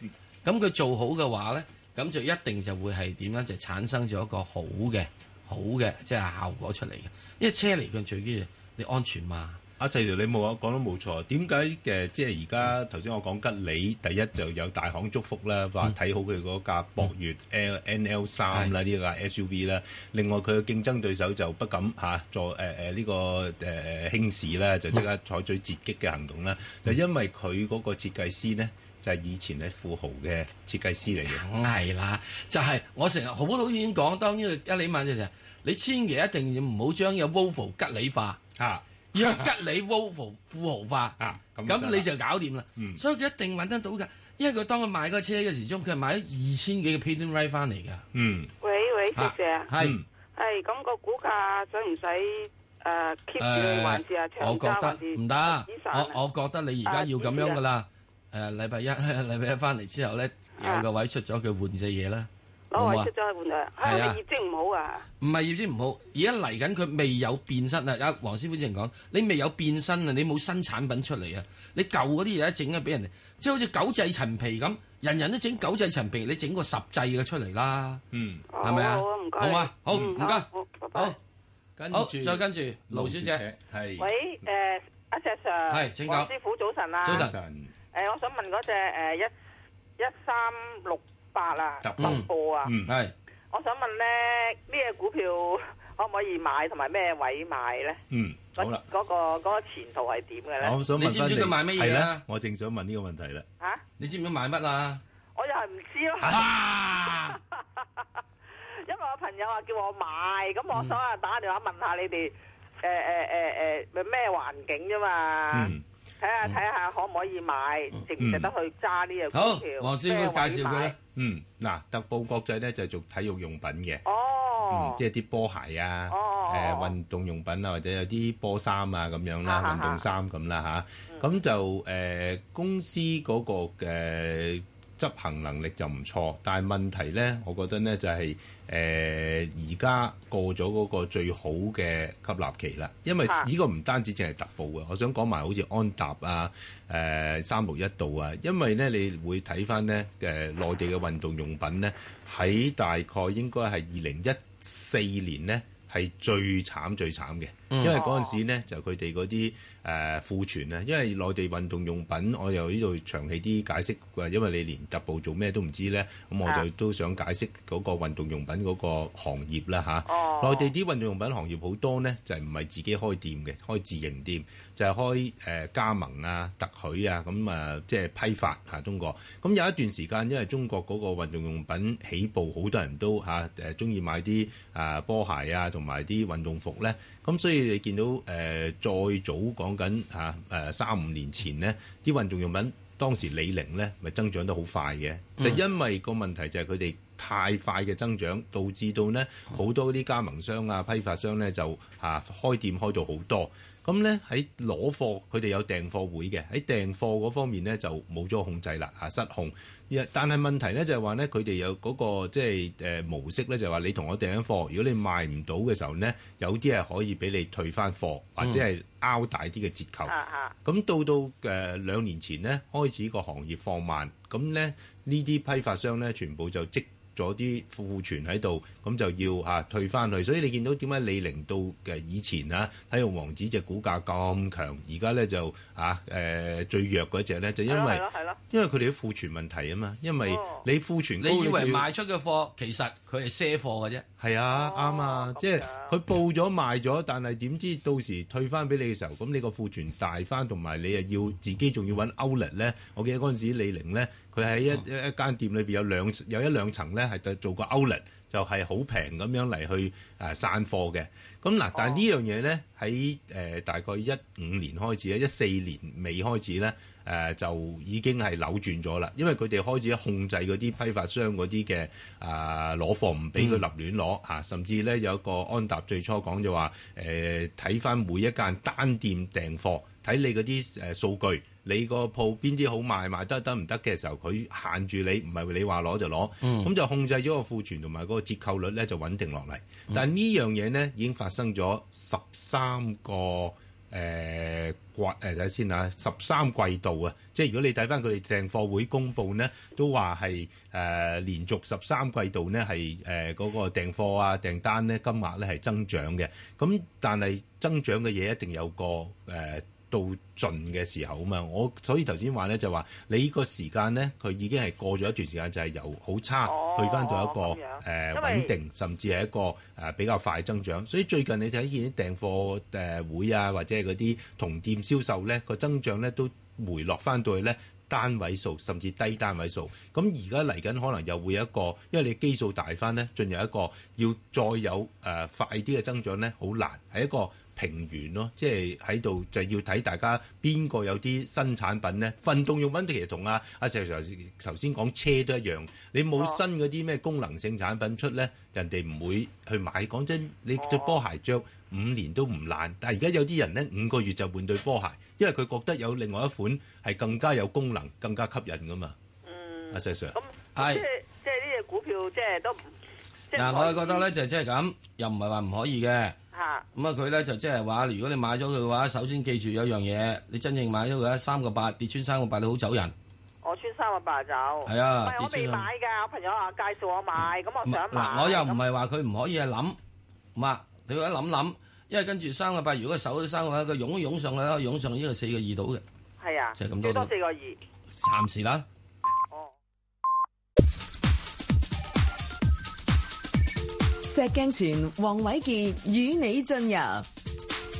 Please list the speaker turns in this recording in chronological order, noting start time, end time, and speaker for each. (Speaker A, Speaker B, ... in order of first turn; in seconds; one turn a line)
Speaker A: 0.4-9.6
Speaker B: 9.8-31.4
Speaker A: 31.1-38.4
Speaker B: 38.5-39.5
Speaker A: 39.1-48.0
Speaker B: 41.2-42.1
Speaker B: 42.8-43.0
Speaker B: 48.1-48.5
Speaker C: 48.6-49.7
Speaker A: 49.1-50.0
Speaker B: 49.8-50.0
Speaker C: 50.3-56.2
Speaker A: 53.4-63.1
Speaker C: 56.8-57.6
Speaker C: 60.6-60.9
Speaker C: 62.7-65.1
Speaker A: 63.8-64.2
Speaker A: 65.2-78.0
Speaker B: 78.1-78.5
Speaker C: 78.5-81.2
Speaker A: 78.6-81.2
Speaker B: 81.8-84.1
Speaker A: 81.9-83.4
Speaker D: 84.0-87.2
Speaker A: 85.7-86.3
Speaker A: 87.0-87.3
Speaker B: 87.0-87.7
Speaker D: 87.9-89.3
Speaker D: 90.0-92.7
Speaker B: 91.8-92.9
Speaker A: 92.0-92.3
Speaker A: 92.8-93.1
Speaker D: 93.5-98.0
Speaker B: 98.1-98.8
Speaker D: 98.6-100.8
Speaker B: 100.6-103.5
Speaker A: 101.0-102.2
Speaker A: 104.0-105.0
Speaker D: 105.3-106.5
Speaker A: 106.2-107.4
Speaker D: 108.8-121.0
Speaker B: 115.5-115.8
Speaker B: 118.2-118.5
Speaker A: 119.3-120.9
Speaker B: 121.1-124.0
Speaker D: 124.0-125.0
Speaker B: 124.7-241.9
Speaker D: 126.1-126.9
Speaker D: 129.4-130.0
Speaker D: 131.1-131.3
Speaker A: 157.7-158.0
Speaker D: 157.9-158.4
Speaker D: 170.1-170.7
Speaker D: 220.1-220.5
Speaker D: 237.7-238.4
Speaker D: 240.2-240.6
Speaker A: 241.2-244.0
Speaker B: 244.2-358.9
Speaker D: 244.5-245.9
Speaker D: 261.7-262.0
Speaker A: 286.4-286.7
Speaker D: 316.4-318.5
Speaker D: 350.6-351.0
Speaker D: 359.2-362.7
Speaker B: 359.7-360.2
Speaker A: 360.6-360.8
Speaker D: 363.3-364.1
Speaker A: 363.3-366.2
Speaker D: 366.3-366.6
Speaker A: 366.7-372.9
Speaker D: 373.4-378.6
Speaker A: 374.6-375.7
Speaker A: 377.6-379.8
Speaker A: 380.3-385.8
Speaker D: 386.2-387.6
Speaker A: 386.6-387.1
Speaker A: 388.0-388.6
Speaker E: 394.1-397.1